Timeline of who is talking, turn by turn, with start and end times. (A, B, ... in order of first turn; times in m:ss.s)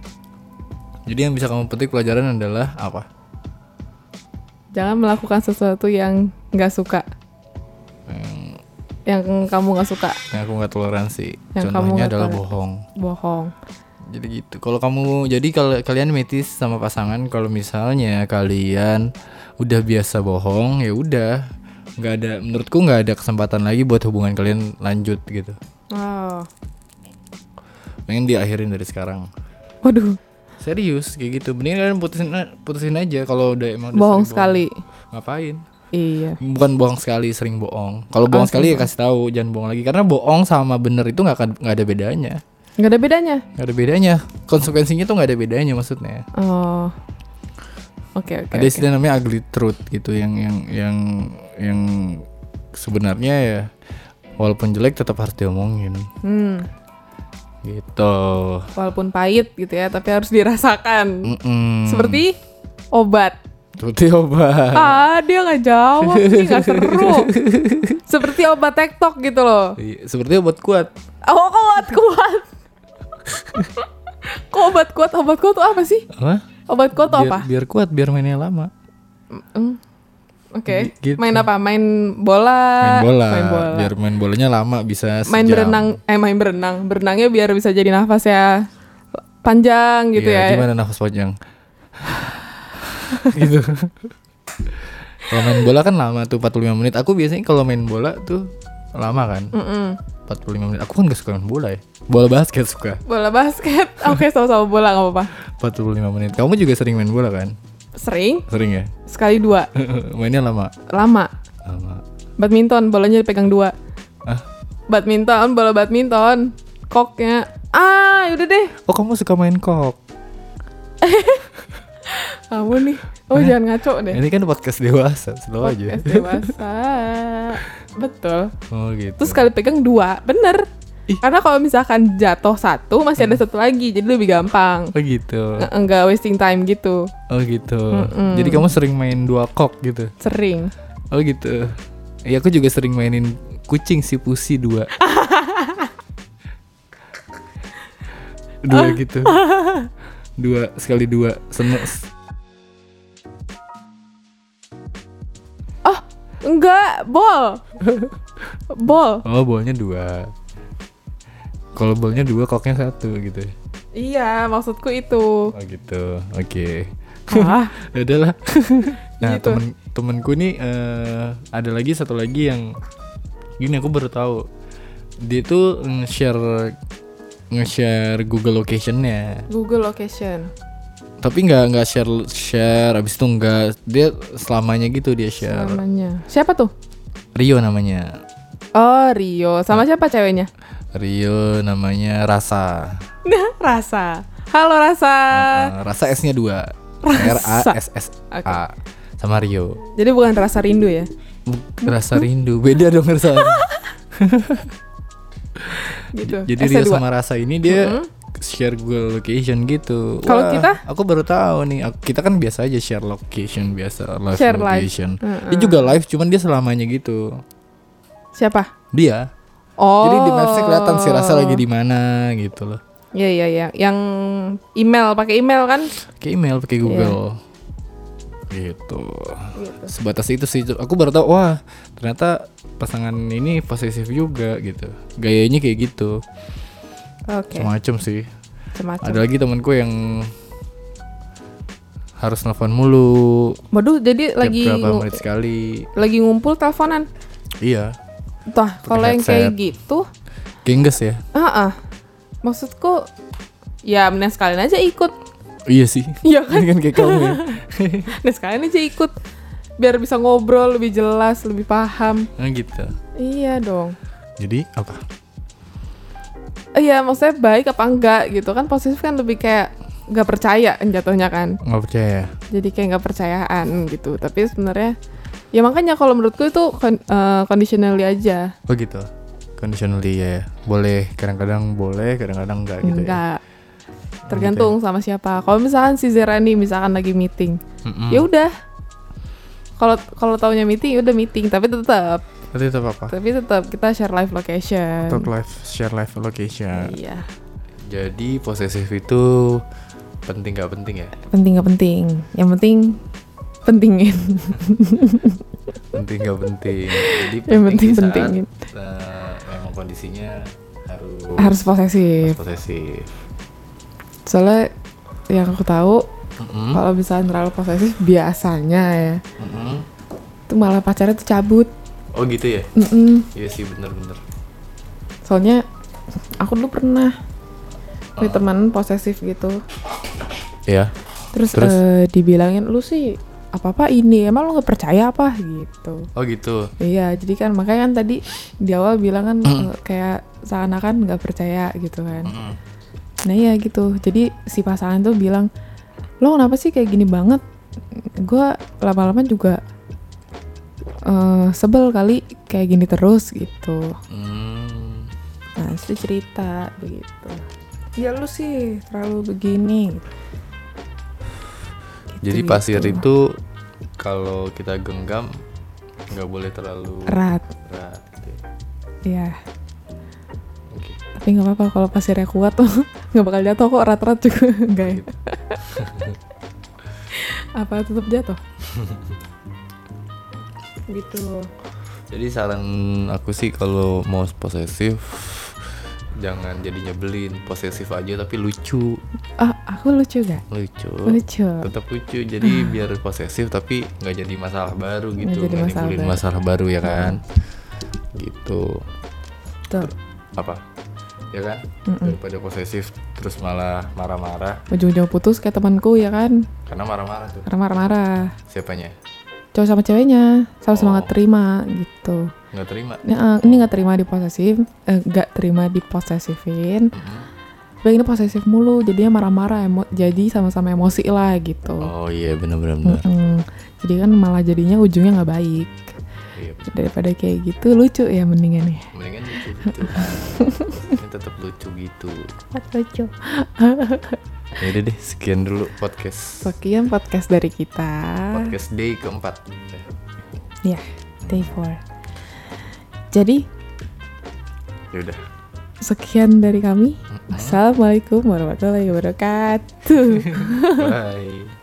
0:01.1-0:03.1 A
0:04.7-0:07.0 B
0:08.1-0:08.6 A
0:09.1-0:10.2 B
0:10.3-0:12.8 A
0:11.5-0:12.4 B
0:13.0-0:13.5 B
0:14.1-0:21.4 A
0:22.0-0:25.6 A
0:25.9-0:26.5 B
0:28.1-0:29.3 A
0:29.8-0:30.2 B
0:30.6-0:35.6 A
0:33.9-0:34.8 B
0:35.9-0:36.4 B
0:36.4-0:42.4 A
0:38.3-0:38.9 B
0:42.8-0:43.4 B
0:43.5-0:46.2 A
0:46.3-0:46.9 B
0:48.2-0:48.8 B
0:48.5-0:53.7 A
0:54.4-0:56.1 A
0:56.2-0:56.7 B
0:57.6-0:58.7 A
0:58.8-1:01.3 B
1:01.2-1:02.2 A
1:01.8-1:02.4 B
1:02.9-1:03.4 B
1:03.8-1:05.0 A
1:04.7-1:07.3 B
1:06.0-1:08.0 A
1:08.0-1:09.8 B
1:09.8-1:10.9 A
1:11.2-1:12.5 B
1:13.3-1:13.7 A
1:13.8-1:16.1 B
1:16.1-1:16.4 A
1:16.7-1:17.4 B
1:17.0-1:18.7 A
1:19.4-1:19.8 B
1:20.5-1:23.9 B
1:20.7-1:21.4 A
1:22.8-1:25.9 A
1:25.3-1:28.6 B
1:29.4-1:30.6 B
1:30.1-1:31.4 A
1:32.0-1:34.1 A
1:34.6-1:39.5 A
1:39.5-1:40.0 B
1:40.3-1:43.0 A
1:43.0-1:45.3 B
1:45.6-1:47.6 A
1:47.9-1:48.5 B
1:48.5-1:48.9 A
1:49.0-1:49.7 B
1:49.8-1:50.7 A
1:50.9-1:51.3 B
1:51.6-1:52.0 A
1:52.4-1:53.7 B
1:54.9-1:58.7 B
1:58.8-2:00.0 A
2:01.0-2:01.5 B
2:02.0-2:04.2 B
2:04.1-2:06.5 A
2:05.6-2:08.5 B
2:08.7-2:09.5 A
2:09.2-2:10.7 B
2:11.2-2:14.9 B
2:14.9-2:15.7 A
2:15.6-2:17.1 B
2:17.3-2:20.1 A
2:17.9-2:18.7 B
2:20.2-2:20.7 B
2:21.1-2:21.7 A
2:22.2-2:24.9 A
2:25.0-2:25.9 B
2:28.6-2:29.4 A
2:28.7-2:29.9 B
2:30.4-2:32.1 A
2:35.8-2:37.6 B
2:37.8-2:38.2 A
2:38.7-2:39.2 B
2:39.2-2:40.3 A
2:41.8-2:43.5 A
2:44.0-2:45.5 B
2:45.5-2:52.7 A
2:47.3-2:47.7 B
2:49.2-2:49.6 B
2:53.6-2:54.5 A
2:55.2-2:56.8 A
2:57.5-2:59.5 A
2:59.5-3:00.5 B
3:01.2-3:05.8 A
3:05.4-3:06.7 B
3:07.4-3:08.2 A
3:08.8-3:10.5 B
3:10.9-3:13.0 A
3:13.2-3:15.7 B
3:15.3-3:19.8 A
3:17.0-3:17.8 B
3:18.3-3:18.6 B
3:20.0-3:21.1 B
3:21.5-3:24.8 A
3:21.8-3:22.2 B
3:23.4-3:23.9 B
3:25.6-3:37.4 A
3:25.8-3:27.0 B
3:27.6-3:28.1 B
3:30.2-3:30.8 B
3:34.3-3:35.9 B
3:38.4-3:38.7 B
3:38.9-3:39.3 A
3:39.8-3:41.6 B
3:40.0-3:42.8 A
3:43.1-3:45.9 B
3:46.1-3:47.4 A
3:46.8-3:47.2 B
3:48.5-3:56.2 A
3:49.6-3:49.9 B
3:57.3-3:57.7 B
3:57.6-3:58.3 A
3:58.8-3:59.2 B
3:59.0-4:00.3 A
4:02.2-4:03.6 A
4:03.7-4:05.2 B
4:04.4-4:05.9 A
4:06.0-4:07.1 B
4:07.6-4:08.0 A
4:08.5-4:10.1 B
4:08.8-4:09.6 A
4:10.6-4:11.2 A
4:11.3-4:11.8 B
4:12.4-4:13.1 B
4:13.8-4:15.1 B
4:15.7-4:18.1 A
4:16.2-4:17.6 B
4:18.1-4:19.1 B
4:19.8-4:22.3 B
4:22.4-4:22.9 A
4:23.2-4:24.0 B
4:24.4-4:25.0 A
4:26.8-4:31.6 B
4:31.6-4:32.3 A
4:32.5-4:35.0 B
4:35.5-4:38.5 B
4:38.7-4:43.2 A
4:42.8-4:43.4 B
4:44.3-4:44.8 A
4:44.3-4:47.6 B
4:47.8-4:48.3 A
4:48.1-4:48.5 B
4:49.8-4:52.2 B
4:52.5-4:53.1 A
4:53.1-4:55.3 B
4:55.1-4:57.0 A
4:56.7-4:57.2 B
4:57.9-4:59.6 A
5:00.2-5:01.1 A
5:01.2-5:03.0 B
5:03.6-5:05.4 B
5:05.9-5:11.6 A
5:06.9-5:08.5 B
5:11.4-5:12.4 B
5:12.2-5:13.1 A
5:14.3-5:14.7 B
5:15.3-5:16.0 B
5:16.4-5:16.8 A
5:16.7-5:19.2 B
5:19.4-5:19.8 A
5:20.5-5:21.7 B
5:22.1-5:22.7 A
5:22.8-5:23.3 B
5:23.3-5:24.2 A
5:25.2-5:25.6 B
5:26.4-5:27.2 B
5:28.2-5:28.5 A
5:28.2-5:29.6 B
5:30.7-5:30.9 A
5:31.3-5:36.1 B
5:31.5-5:31.8 A
5:36.2-5:36.7 A
5:36.8-5:42.3 B
5:39.4-5:39.7 A
5:42.2-5:42.6 A
5:43.2-5:45.5 B
5:46.2-5:47.4 B
5:48.2-5:49.6 B
5:51.0-5:54.0 B
5:54.1-5:55.1 A
5:55.6-5:57.4 B
5:58.0-6:00.0 B
6:02.2-6:03.0 B
6:02.2-6:03.4 A
6:04.0-6:05.4 A
6:06.1-6:08.4 A
6:07.1-6:07.5 B
6:09.0-6:09.4 B
6:10.7-6:11.0 A
6:11.1-6:15.6 B
6:15.6-6:16.2 A
6:17.1-6:18.4 B
6:18.7-6:19.1 A
6:20.9-6:21.5 B
6:22.1-6:29.0 A
6:29.4-6:30.4 B
6:30.5-6:37.2 A
6:31.0-6:31.7 B
6:32.4-6:32.7 B
6:35.2-6:36.2 B
6:36.8-6:37.2 B
6:38.1-6:38.8 A
6:39.8-6:40.6 A
6:41.3-6:44.6 A
6:41.9-6:42.2 B
6:44.7-6:46.5 B
6:46.6-6:47.5 A
6:47.5-6:48.4 B
6:48.5-6:49.0 A
6:49.5-6:52.3 B
6:50.7-6:51.1 A
6:52.5-6:53.7 A
6:53.0-6:56.9 B
6:56.9-6:57.3 A
6:57.8-7:01.9 B
7:01.8-7:03.0 A
7:02.8-7:06.0 B
7:06.3-7:06.7 A
7:06.7-7:08.9 B
7:08.9-7:12.3 A
7:09.6-7:10.8 B
7:12.5-7:14.2 B
7:14.6-7:16.5 A
7:16.4-7:18.5 B
7:18.3-7:20.0 A
7:20.6-7:21.8 B
7:21.2-7:21.5 A
7:23.1-7:23.4 B
7:24.9-7:25.2 A
7:25.8-7:31.0 B
7:27.1-7:27.6 A
7:30.0-7:31.5 A